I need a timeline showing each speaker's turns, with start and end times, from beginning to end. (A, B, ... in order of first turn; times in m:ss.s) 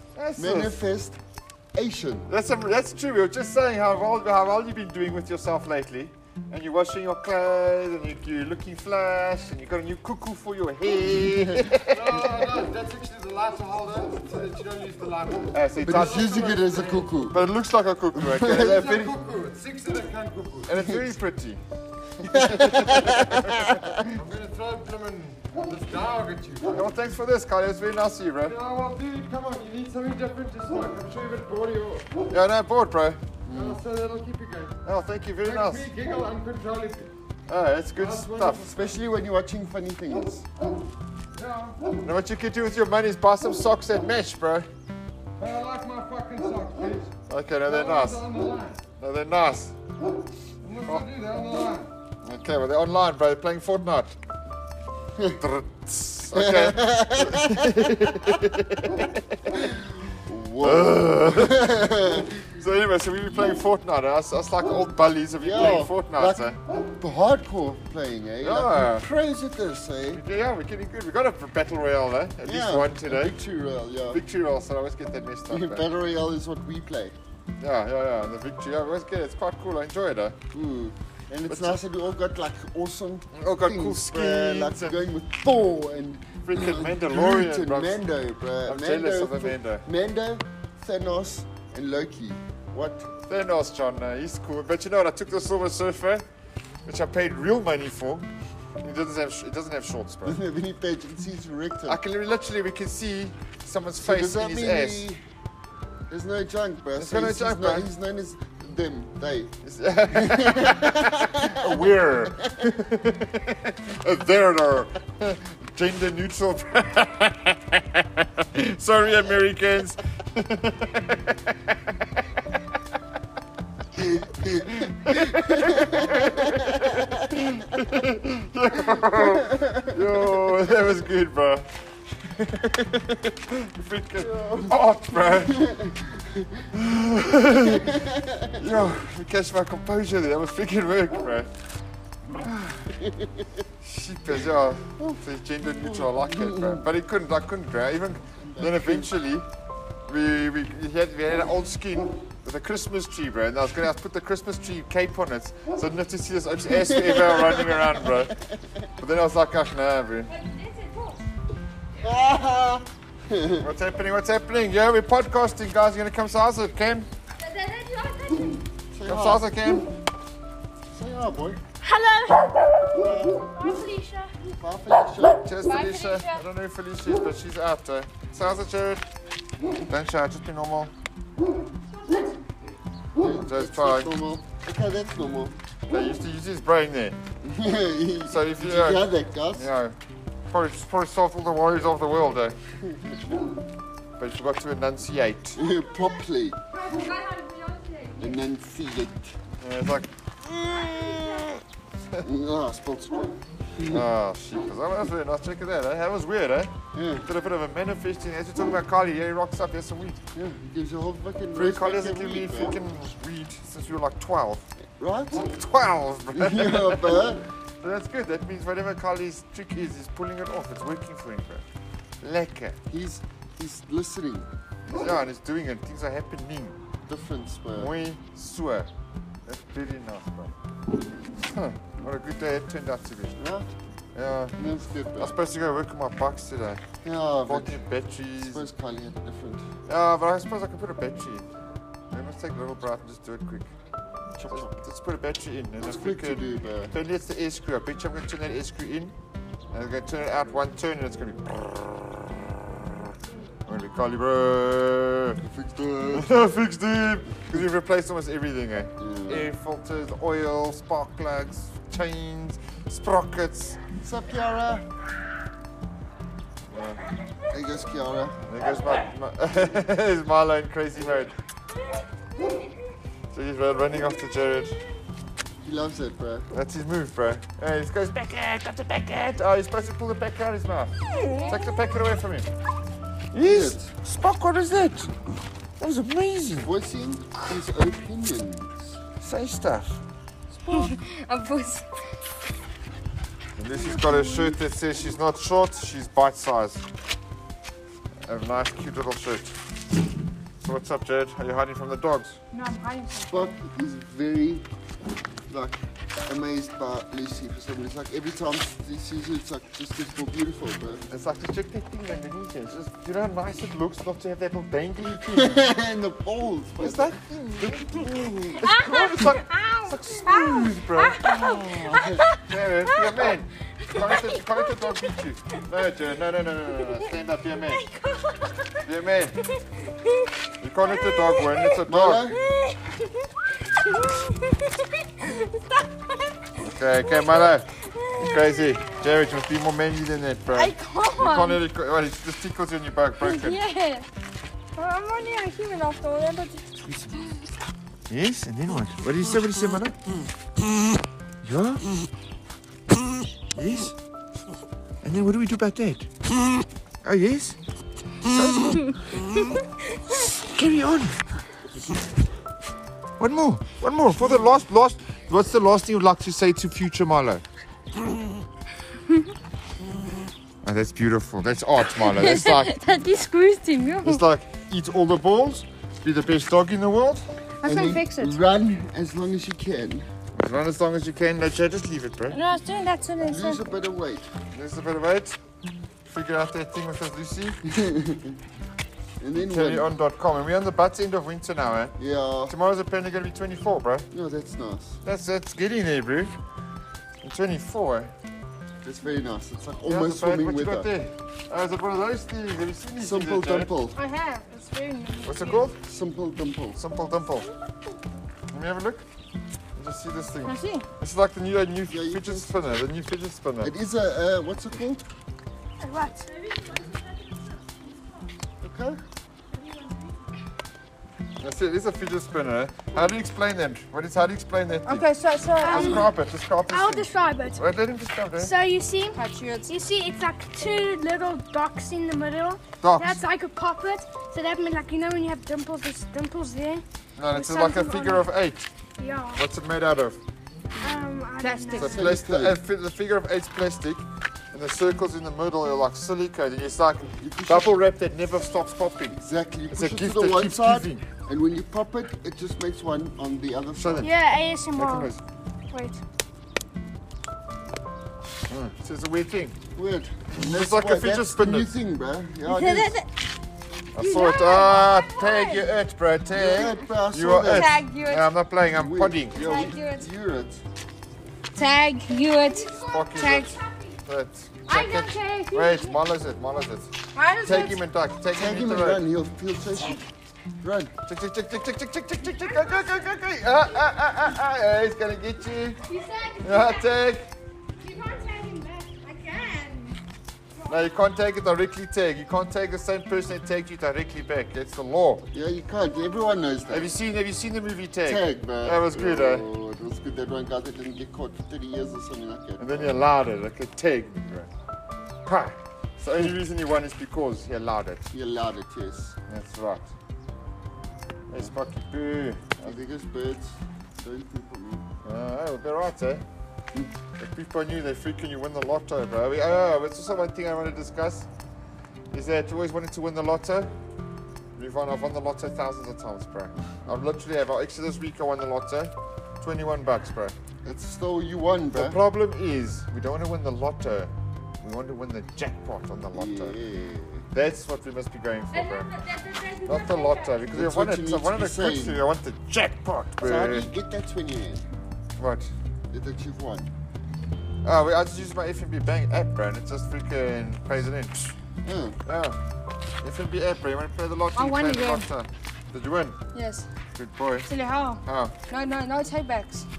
0:00.1-0:00.8 A
0:00.4-0:01.2 B
0:01.7-0:02.3 B
0:02.3-0:12.3 A
0:11.9-0:17.1 C
0:15.5-0:16.6 A
0:15.8-0:17.4 B
0:17.3-0:19.2 A
0:18.2-0:18.8 B
0:18.4-0:20.7 C
0:20.7-0:21.6 A
0:22.2-0:24.0 A
0:22.2-0:24.1 B
0:24.1-0:26.8 C
0:26.7-0:28.6 A
0:28.4-0:32.2 C
0:32.3-0:33.2 A
0:33.4-0:33.8 B
0:33.5-0:34.8 C
0:34.8-0:35.9 A
0:35.4-0:37.1 C
0:37.5-0:38.7 A
0:38.0-0:38.7 C
0:38.5-0:40.4 B
0:41.3-0:41.9 C
0:42.0-0:44.7 A
0:45.4-0:47.1 C
0:47.3-0:48.2 A
0:47.6-0:48.8 C
0:49.0-0:49.7 A
0:50.6-0:51.9 C
0:52.2-0:54.1 A
0:55.4-0:59.7 A
0:56.3-0:58.3 B
0:59.6-1:02.4 B
1:00.6-1:06.6 A
1:05.4-1:06.4 B
1:07.0-1:10.2 B
1:08.4-1:09.1 A
1:10.1-1:13.4 A
1:12.4-1:14.2 B
1:14.1-1:15.9 A
1:15.5-1:17.2 B
1:17.6-1:20.4 A
1:20.5-1:33.1 B
1:21.5-1:21.8 A
1:23.3-1:25.0 A
1:26.4-1:28.0 A
1:28.6-1:29.8 A
1:33.3-1:36.2 A
1:36.8-1:38.3 A
1:38.8-1:40.4 A
1:40.2-1:42.0 B
1:41.8-1:45.0 A
1:44.0-1:45.2 B
1:46.1-1:49.5 B
1:47.0-1:47.9 A
1:49.6-2:02.4 A
1:50.1-1:51.8 B
2:04.5-2:15.6 A
2:04.5-2:07.3 B
2:09.4-2:10.0 B
2:14.2-2:14.8 B
2:15.3-2:16.6 B
2:16.7-2:18.0 A
2:17.7-2:18.6 B
2:18.5-2:21.5 A
2:22.3-2:22.9 A
2:22.9-2:23.4 B
2:23.8-2:29.5 A
2:25.8-2:26.8 B
2:28.4-2:29.1 B
2:30.0-2:38.3 A
2:36.8-2:37.9 B
2:38.4-2:38.8 B
2:39.0-2:40.3 A
2:40.3-2:41.2 D
2:40.4-2:41.0 E
2:42.0-2:43.7 B
2:43.6-2:47.1 A
2:47.4-2:48.6 E
2:47.5-2:48.0 D
2:48.9-2:49.5 B
2:49.0-2:49.9 A
2:50.9-2:51.6 B
2:51.8-2:52.7 E
2:52.9-2:53.7 B
2:53.6-2:54.3 E
2:54.5-2:55.4 B
2:55.4-2:59.0 A
2:55.6-2:56.4 D
2:59.9-3:00.9 A
3:03.2-3:05.6 B
3:03.4-3:04.2 A
3:05.9-3:07.2 A
3:07.4-3:09.7 B
3:08.2-3:10.0 A
3:10.5-3:12.6 A
3:12.8-3:13.2 B
3:14.2-3:15.6 A
3:15.5-3:16.6 B
3:16.7-3:18.4 D
3:18.2-3:19.4 B
3:19.6-3:21.6 A
3:22.2-3:24.0 B
3:23.8-3:30.2 A
3:26.9-3:27.3 B
3:30.3-3:32.8 B
3:31.5-3:34.7 A
3:34.8-3:35.5 B
3:35.3-3:37.3 A
3:36.3-3:37.4 B
3:37.8-3:41.6 A
3:42.2-3:42.8 A
3:42.9-3:44.5 B
3:44.9-3:46.8 A
3:47.1-3:47.9 B
3:47.8-3:48.9 A
3:49.4-3:50.5 A
3:51.4-3:53.4 A
3:53.4-3:53.7 B
3:54.1-3:54.6 A
3:54.6-3:55.4 B
3:55.2-3:56.8 A
3:57.0-3:57.8 B
3:57.4-3:58.7 A
3:58.4-3:59.6 B
3:59.9-4:01.4 A
4:02.1-4:03.7 A
4:04.3-4:04.7 B
4:04.5-4:09.1 A
4:05.8-4:06.9 B
4:09.7-4:11.7 A
4:13.6-4:15.4 A
4:15.4-4:16.3 B
4:16.1-4:23.8 A
4:19.0-4:19.5 B
4:24.0-4:24.8 B
4:26.7-4:27.0 A
4:27.5-4:28.4 B
4:28.4-4:31.3 A
4:33.3-4:34.8 A
4:35.6-4:36.5 B
4:36.5-4:42.5 A
4:41.1-4:41.6 D
4:43.3-4:45.1 A
4:43.4-4:43.9 B
4:45.8-4:46.7 A
4:46.6-4:49.0 B
4:49.2-4:50.0 A
4:50.5-4:51.8 D
4:53.6-4:56.8 A
4:53.8-4:54.5 D
4:58.2-4:59.6 A
5:00.6-5:02.4 A
5:02.5-5:03.5 D
5:03.3-5:04.7 B
5:05.5-5:11.1 B
5:11.1-5:15.6 A
5:15.2-5:17.2 B
5:16.8-5:27.8 A
5:18.6-5:22.4 D
5:21.5-5:22.3 B
5:28.1-5:28.5 E
5:28.8-5:29.4 A
5:30.6-5:32.3 A
5:31.8-5:32.4 B
5:33.8-5:35.7 D
5:36.6-5:43.6 A
5:38.0-5:38.7 D
5:40.5-5:41.6 D
5:43.2-5:44.0 D
5:44.8-5:47.2 D
5:48.1-5:50.0 A
5:51.4-5:51.8 A
5:53.5-5:53.9 A
5:55.0-5:56.1 A
5:57.0-5:57.6 A
5:58.2-5:59.6 A
6:00.1-6:01.2 A
6:03.2-6:07.4 A
6:10.6-6:12.7 A
6:12.0-6:14.2 D
6:14.0-6:17.2 A
6:17.6-6:18.4 D
6:17.6-6:20.1 B
6:20.3-6:22.4 A
6:22.3-6:23.7 D
6:23.2-6:24.3 B
6:24.5-6:25.4 A
6:26.0-6:27.6 A
6:27.6-6:28.4 B
6:29.2-6:29.9 B
6:29.4-6:32.0 A
6:32.0-6:32.5 B
6:32.5-6:34.1 A
6:34.1-6:35.0 B
6:35.0-6:36.3 A
6:37.2-6:38.1 A
6:38.8-6:40.9 B
6:39.8-6:43.7 A
6:43.0-6:44.0 B
6:44.0-6:45.6 D
6:45.2-6:45.8 A
6:45.8-6:46.8 B
6:46.8-6:47.5 A
6:48.5-6:49.0 A
6:49.7-6:53.7 A
6:50.4-6:50.9 D
6:51.9-6:52.8 B
6:53.6-6:55.1 B
6:55.8-6:58.3 E
6:58.6-6:59.0 B
6:59.5-7:00.2 E
7:01.4-7:05.1 A
7:04.8-7:06.1 D
7:05.6-7:06.1 E
7:05.6-7:08.5 A
7:06.7-7:07.6 E
7:08.4-7:18.2 E
7:09.1-7:09.7 D
7:12.8-7:13.2 A
7:17.2-7:18.7 A
7:19.0-7:19.4 E
7:19.3-7:20.2 A
7:20.8-7:22.0 E
7:21.4-7:22.0 D
7:21.8-7:22.6 B
7:21.8-7:29.2 A
7:27.2-7:27.8 B
7:29.1-7:34.1 B
7:29.7-7:31.0 A
7:33.8-7:34.2 A
7:34.0-7:35.1 E
7:34.7-7:35.2 A
7:35.7-7:36.0 E
7:38.5-7:39.6 A
7:39.7-7:43.0 B
7:40.3-7:41.7 A
7:42.4-7:43.1 E
7:43.9-7:49.5 A
7:44.0-7:45.6 D
7:46.3-7:47.7 B
7:47.4-7:48.3 D
7:48.7-7:50.6 B
7:49.3-7:50.1 D
7:51.5-7:53.6 D
7:52.4-7:54.0 E
7:52.8-7:56.9 A
7:54.7-7:56.0 D
7:57.1-7:57.8 D
7:57.4-7:59.0 A
7:58.3-8:00.0 B
8:00.6-8:00.9 B
8:01.1-8:05.8 A
8:05.8-8:06.9 E
8:06.4-8:07.3 A
8:07.7-8:10.0 E
8:10.6-8:15.2 A
8:15.3-8:16.9 B
8:16.7-8:19.5 A
8:18.0-8:23.0 B
8:22.6-8:24.5 A
8:25.2-8:28.1 A
8:28.1-8:29.2 B
8:29.3-8:29.9 A
8:31.3-8:32.8 A
8:32.6-8:34.8 B
8:35.0-8:36.2 A
8:37.2-8:41.3 A
8:42.1-8:43.7 A
8:44.6-8:50.4 A
8:50.6-8:52.0 B
8:51.7-8:56.6 A
8:56.1-8:57.3 B
8:57.3-8:58.9 A
8:58.5-9:00.4 E
8:59.6-9:03.7 A
9:00.5-9:02.0 B
9:03.2-9:04.6 B
9:05.2-9:05.5 A
9:05.9-9:06.7 B
9:07.6-9:11.4 A
9:11.6-9:12.0 B
9:12.0-9:12.4 A
9:13.0-9:16.2 A
9:14.3-9:15.0 D
9:16.3-9:16.7 D
9:16.9-9:17.5 A
9:17.4-9:19.7 D
9:18.0-9:18.3 A